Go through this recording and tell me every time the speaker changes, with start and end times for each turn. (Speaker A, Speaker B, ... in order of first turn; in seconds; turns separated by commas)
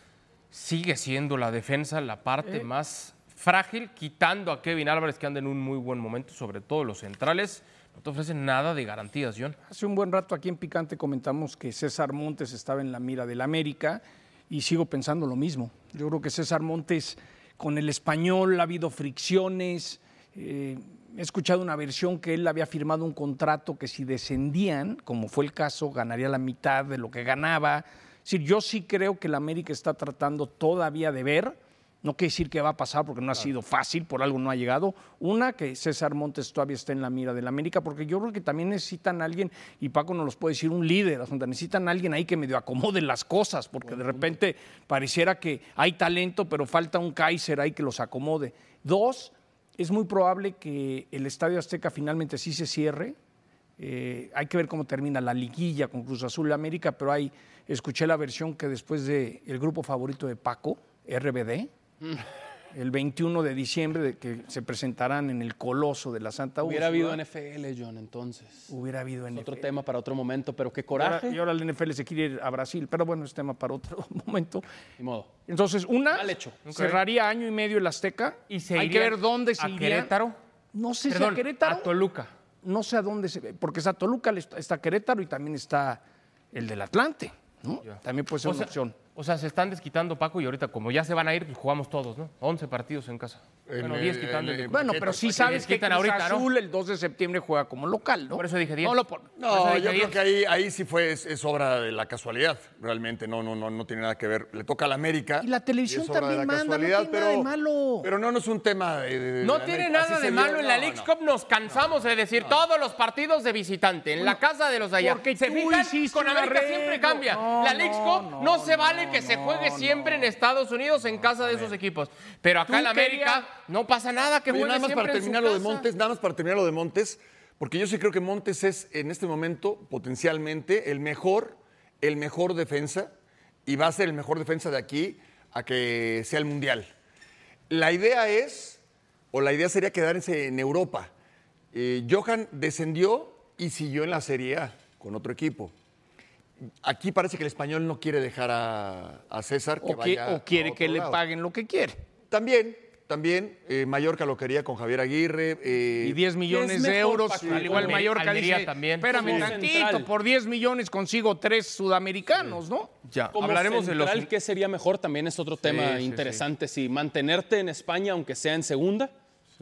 Speaker A: 0.5-9.6, Speaker B: 9.7-53.2, Speaker B: 53.8-61.7, Speaker B: 62.7-67.2, Speaker C: 66.6-68.7, Speaker B: 68.7-69.7, Speaker C: 69.3-71.4, Speaker B: 70.9-74.7, Speaker C: 75.0-75.3, Speaker B: 75.5-80.1, Speaker C: 76.1-76.6, Speaker A: 76.7-77.0, Speaker A: 78.5-80.4, Speaker B: 80.7-81.9, Speaker A: 81.1-82.3, Speaker B: 82.6-86.0, Speaker B: 86.5-89.0, Speaker A: 87.8-96.5, Speaker D: 93.7-95.7, Speaker B: 94.7-99.3, Speaker A: 98.3-100.2, Speaker D: 99.4-111.1, Speaker B: 105.4-108.1, Speaker A: 109.4-125.9, Speaker D: 111.7-111.9, Speaker B: 115.0-120.3, Speaker B: 121.4-121.7, Speaker B: 122.7-123.5, Speaker D: 124.5-133.1, Speaker D: 133.7-136.9, Speaker D: 137.7-138.8, Speaker D: 139.3-141.1, Speaker D: 141.7-145.7, Speaker D: 146.8-151.2, Speaker B: 149.8-152.0, Speaker D: 152.3-156.2, Speaker B: 156.0-162.9, Speaker C: 156.5-158.2, Speaker A: 157.5-159.5, Speaker C: 159.1-160.1, Speaker A: 163.1-164.3, Speaker C: 163.3-169.1, Speaker A: 165.9-166.4